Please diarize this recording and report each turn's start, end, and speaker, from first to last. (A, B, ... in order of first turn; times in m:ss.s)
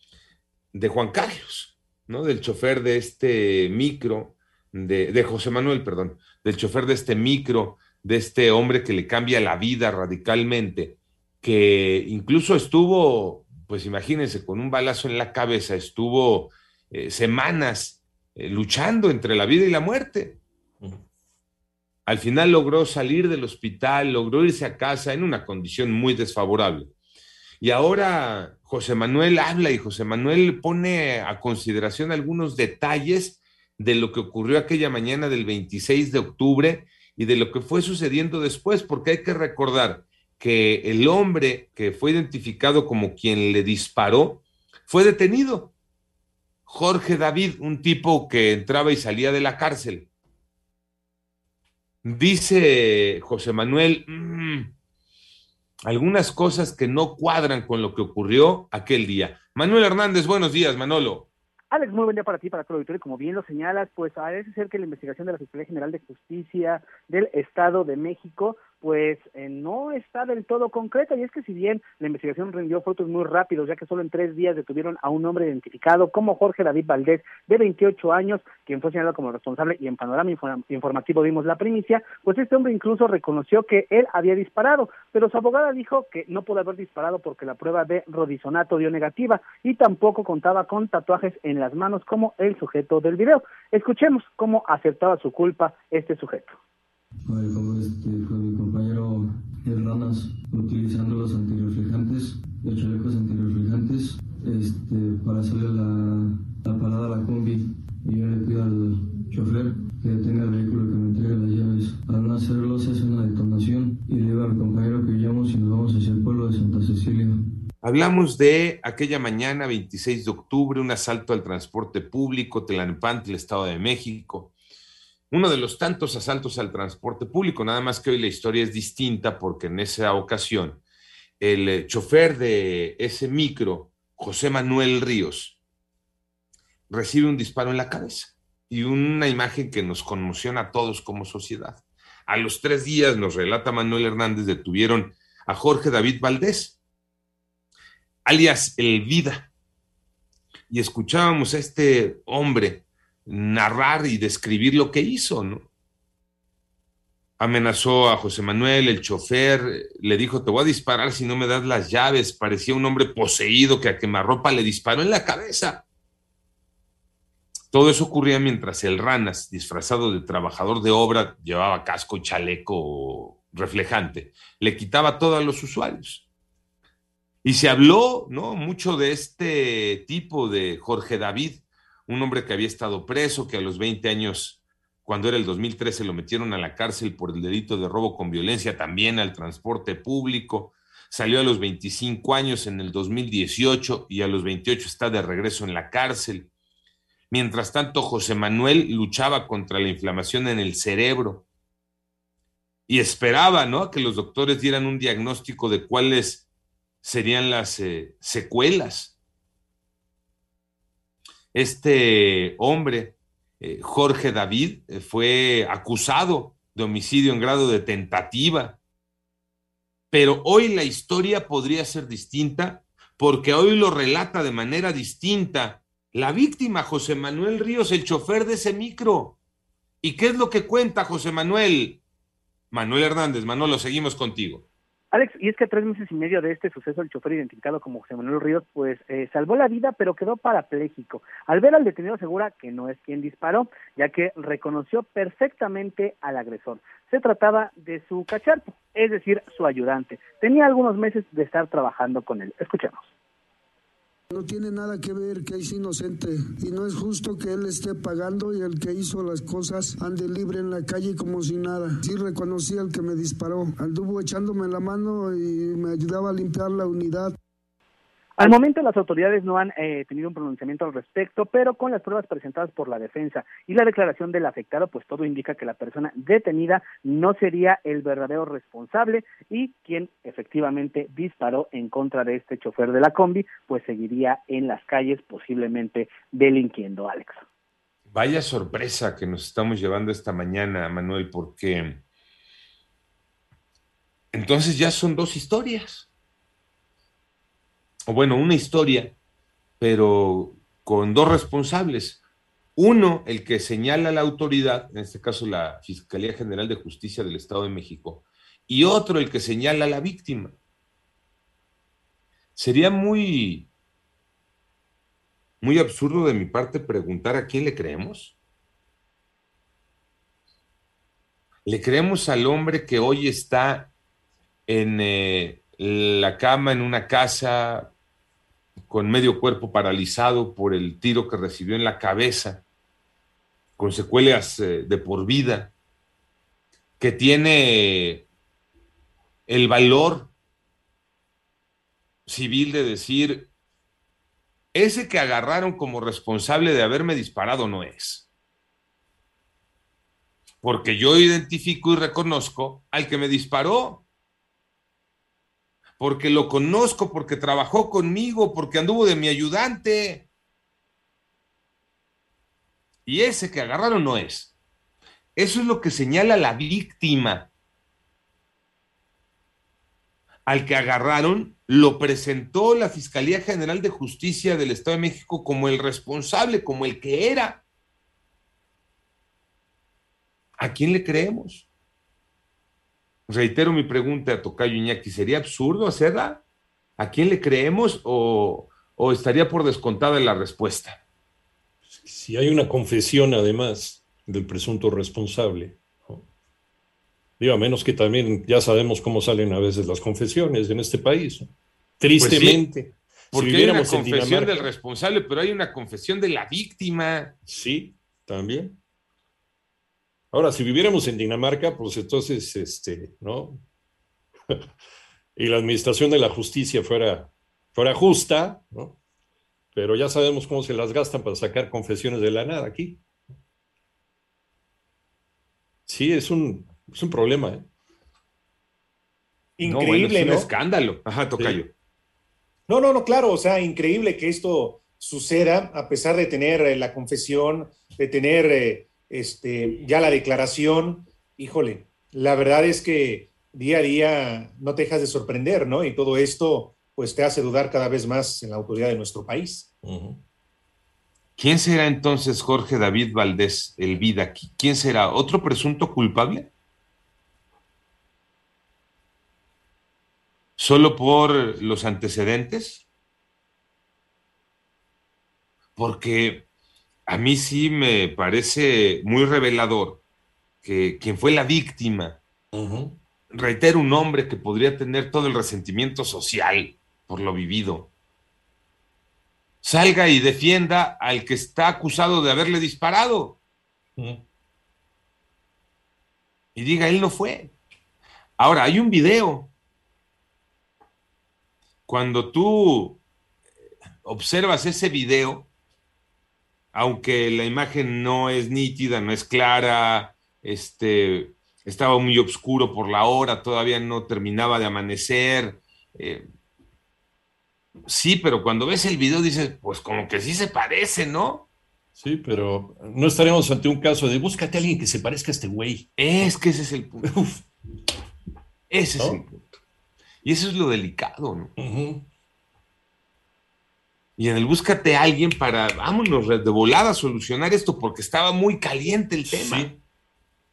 0:00.7-0:20.4 A
0:22.1-0:26.9 A
0:27.6-0:45.7 A
0:46.7-0:50.1 A
0:52.0-0:54.7 A
0:55.9-1:01.3 A
1:01.7-1:36.6 B
1:37.3-1:57.4 C
1:57.8-2:04.5 A
2:05.3-2:10.8 A
2:11.4-2:15.6 A
2:16.9-2:26.8 A
2:28.3-2:29.5 A
2:30.7-2:35.6 A
2:37.4-2:45.8 A
2:47.7-2:56.3 A
2:57.4-3:16.5 A
3:17.3-3:21.4 A
3:22.9-3:26.4 A
3:27.0-3:29.1 A
3:31.5-3:38.8 A
3:40.1-3:49.4 A
3:50.0-3:52.0 A
3:52.7-3:54.6 A
3:55.1-4:13.1 B
4:14.3-4:27.4 D
4:28.4-4:47.4 B
4:48.1-4:52.0 A
4:54.3-4:56.1 A
4:58.1-4:59.1 A
4:59.8-5:02.2 A
5:02.8-5:10.5 A
5:12.6-5:13.7 A
5:15.6-5:18.3 A
5:21.7-5:23.9 A
5:24.7-5:27.9 A
5:28.9-5:32.6 A
5:33.8-5:35.7 A
5:37.0-5:38.2 A
5:39.5-5:40.3 A
5:42.3-5:43.5 A
5:44.7-5:48.3 A
5:50.6-5:54.0 A
5:56.0-6:00.2 A
6:03.1-6:04.5 A
6:05.4-6:07.5 A
6:10.5-6:17.6 A
6:20.6-6:21.7 A
6:23.3-6:26.4 A
6:27.0-6:31.0 A
6:31.9-6:36.2 E
6:37.4-6:41.5 E
6:42.0-6:44.7 E
6:42.2-6:42.6 A
6:43.3-6:47.3 A
6:47.5-6:48.8 E
6:50.3-6:53.6 E
6:55.4-6:59.0 E
6:59.8-7:03.0 E
7:05.9-7:07.7 E
7:09.6-7:10.5 F
7:09.6-7:11.7 A
7:12.7-7:29.7 F
7:29.8-7:30.2 E
7:31.4-7:36.5 A
7:40.6-7:42.8 A
7:45.8-7:46.4 A
7:47.1-7:50.0 A
7:50.6-7:52.2 A
7:52.5-7:53.0 E
7:53.3-7:57.9 A
7:59.6-8:03.4 A
8:06.6-8:07.5 A
8:08.4-8:09.5 A
8:11.9-8:13.0 A
8:14.0-8:15.5 A
8:16.7-8:26.2 A
8:27.9-8:31.4 A
8:32.0-8:35.9 E
8:36.0-8:37.1 A
8:37.0-8:37.4 E
8:38.7-8:39.4 A
8:40.2-8:41.5 A
8:41.6-8:42.0 E
8:44.2-8:49.7 A
8:49.3-8:49.8 E